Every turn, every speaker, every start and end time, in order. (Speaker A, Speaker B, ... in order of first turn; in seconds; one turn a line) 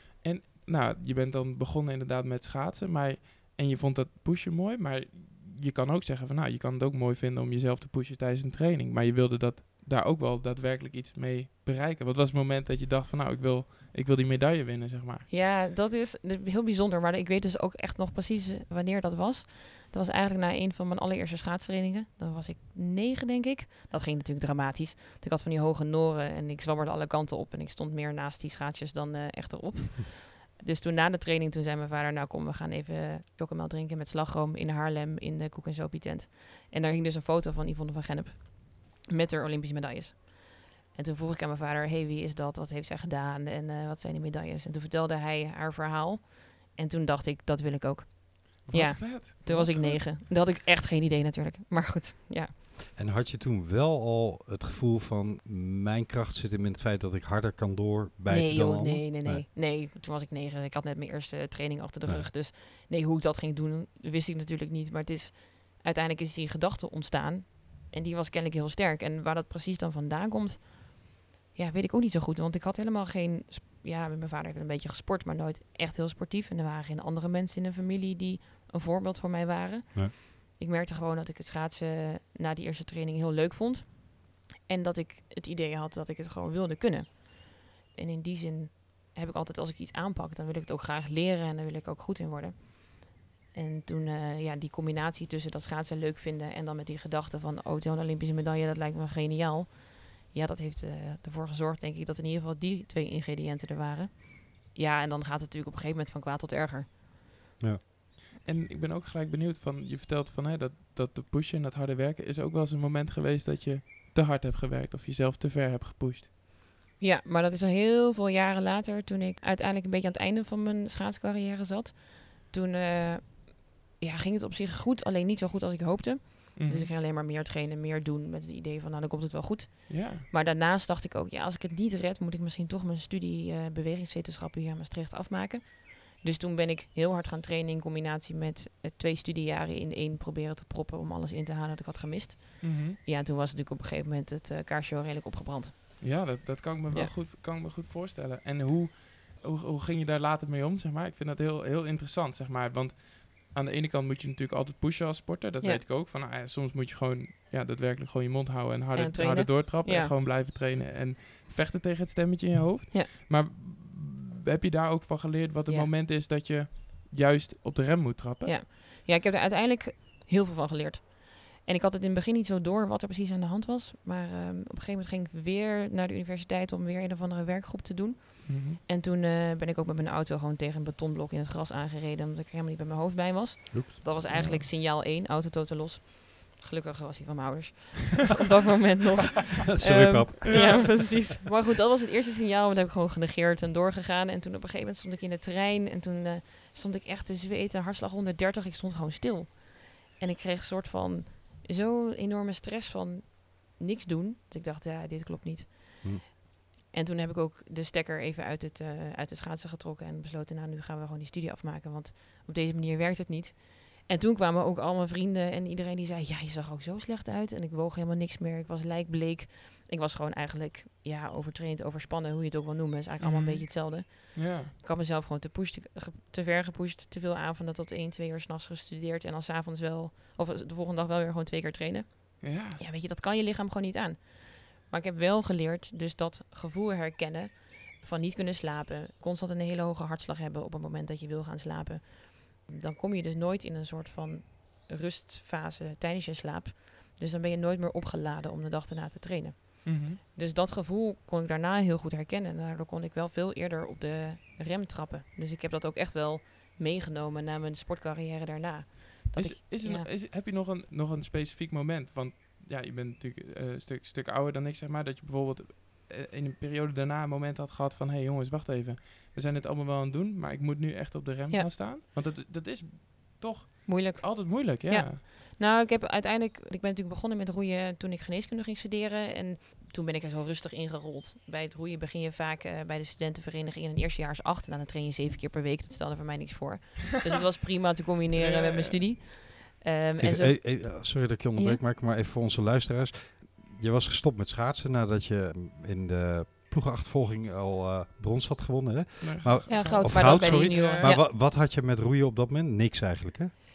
Speaker A: 0.2-15.3
Speaker B: 15.3-52.5
Speaker A: 48.7-50.0
Speaker C: 53.0-59.5
Speaker B: 58.3-106.9
Speaker A: 108.5-116.3
Speaker B: 117.0-146.3
Speaker A: 126.6-126.9
Speaker A: 129.9-130.3
Speaker A: 142.6-143.0
Speaker A: 146.0-168.5
Speaker B: 158.9-160.1
Speaker B: 168.4-206.3
Speaker A: 178.5-178.8
Speaker C: 183.7-184.6
Speaker A: 184.3-184.6
Speaker C: 189.7-191.1
Speaker A: 190.5-191.0
Speaker B: 206.9-260.1
Speaker A: 223.2-224.7
Speaker A: 232.4-232.8
Speaker A: 249.9-250.2
Speaker A: 259.4-275.2
Speaker B: 273.9-291.8
Speaker A: 288.4-289.0
Speaker C: 290.2-303.5
Speaker A: 299.2-301.1
Speaker B: 299.7-301.2